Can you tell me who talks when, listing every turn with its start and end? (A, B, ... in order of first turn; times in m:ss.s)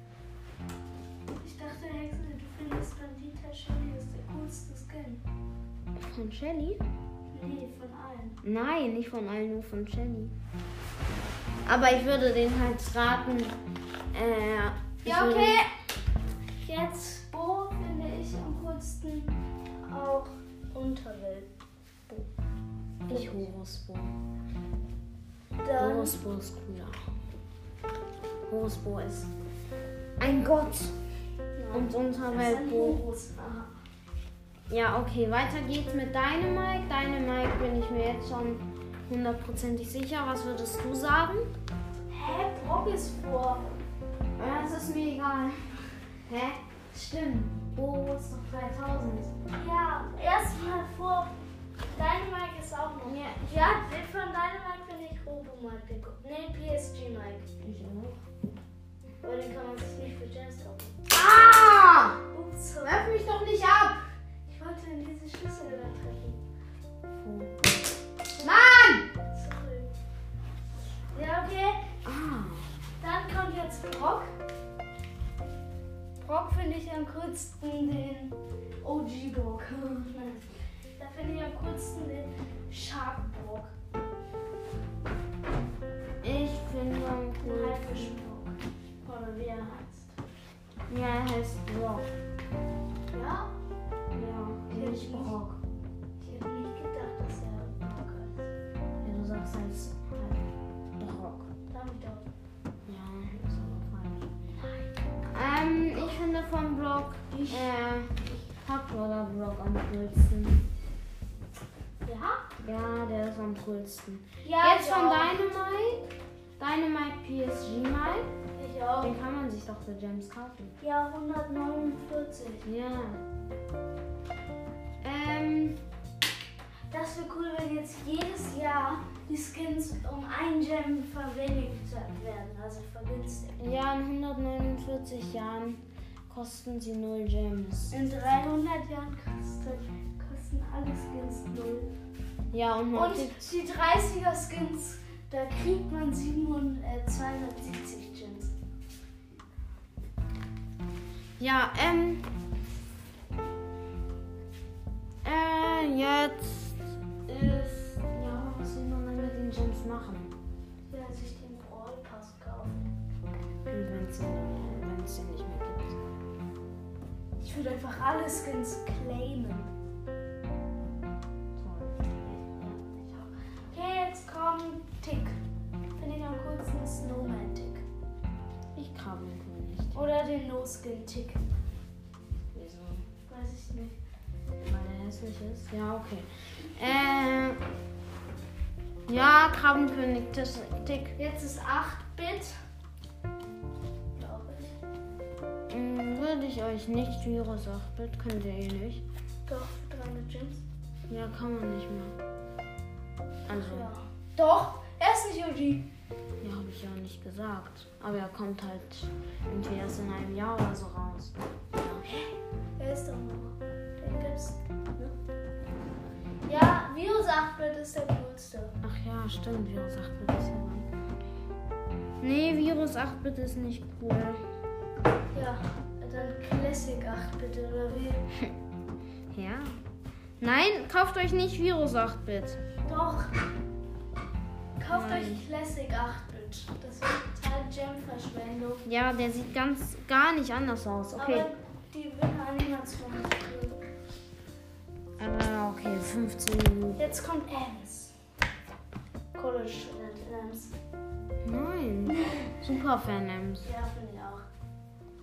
0:01.3-0:05.2 A
0:06.0-0:06.8 B
0:07.3-0:08.4 A
0:08.4-0:10.4 B
0:11.7-0:13.6 B
0:14.1-0:15.7 B
0:15.0-0:15.7 A
0:16.6-0:21.5 A
0:23.1-0:24.1 B
0:23.1-0:23.4 A
0:25.6-0:26.2 A
0:25.8-0:27.0 B
0:28.5-0:29.3 B
0:30.2-0:30.9 B
0:31.6-0:33.7 A
0:31.7-0:33.0 B
0:34.7-0:41.5 B
0:42.1-0:43.7 A
0:44.4-0:49.3 B
0:49.5-0:51.3 A
0:51.9-0:57.5 A
0:53.0-0:53.8 B
0:57.6-0:58.2 B
0:59.2-1:01.0 A
1:01.1-1:02.2 B
1:02.3-1:03.1 A
1:02.8-1:04.0 B
1:04.5-1:06.4 A
1:07.2-1:07.5 B
1:08.4-1:09.1 B
1:09.3-1:09.9 A
1:11.1-1:11.8 A
1:12.0-1:12.7 B
1:13.0-1:14.3 A
1:16.2-1:20.4 A
1:21.0-1:23.7 A
1:26.2-1:28.2 B
1:27.4-1:30.2 A
1:30.9-1:32.1 B
1:33.1-1:33.5 A
1:34.1-1:35.6 B
1:34.7-1:35.3 A
1:36.2-1:38.5 A
1:39.0-1:40.4 B
1:41.0-1:41.5 B
1:41.7-1:42.3 A
1:42.9-1:44.3 B
1:45.3-1:50.6 B
1:47.3-1:47.7 A
1:52.0-1:52.4 A
1:52.6-1:58.3 B
1:54.4-1:55.4 A
1:58.6-1:59.1 A
1:59.0-2:00.7 B
2:00.8-2:02.7 A
2:02.6-2:03.2 B
2:05.0-2:05.8 B
2:06.9-2:13.6 A
2:13.6-2:18.0 B
2:17.9-2:21.9 A
2:22.5-2:23.6 B
2:22.9-2:28.5 A
2:31.4-2:32.3 B
2:35.2-2:40.3 B
2:40.9-2:43.0 A
2:43.7-2:46.1 B
2:47.4-2:49.7 A
2:51.6-2:52.1 B
2:52.2-2:55.4 A
2:56.0-2:57.8 A
2:58.8-3:00.0 B
2:59.9-3:01.4 A
3:02.5-3:03.0 B
3:03.3-3:04.0 A
3:04.6-3:07.6 B
3:09.1-3:11.2 B
3:11.2-3:12.6 A
3:14.2-3:14.8 A
3:15.7-3:19.0 B
3:19.5-3:20.6 A
3:21.1-3:22.2 B
3:23.5-3:23.9 B
3:23.5-3:25.9 A
3:26.4-3:32.2 B
3:32.8-3:34.6 A
3:36.5-3:38.7 A
3:38.8-3:40.9 B
3:42.2-3:44.4 B
3:45.3-3:48.3 A
3:49.3-3:49.8 B
3:50.4-3:52.6 B
3:52.8-3:53.4 A
3:54.8-3:58.8 A
3:54.9-3:55.5 B
3:58.8-4:01.5 B
4:01.2-4:03.8 A
4:05.2-4:07.2 B
4:07.0-4:08.1 A
4:09.4-4:10.8 A
4:11.4-4:13.7 B
4:12.1-4:12.6 A
4:13.6-4:14.4 A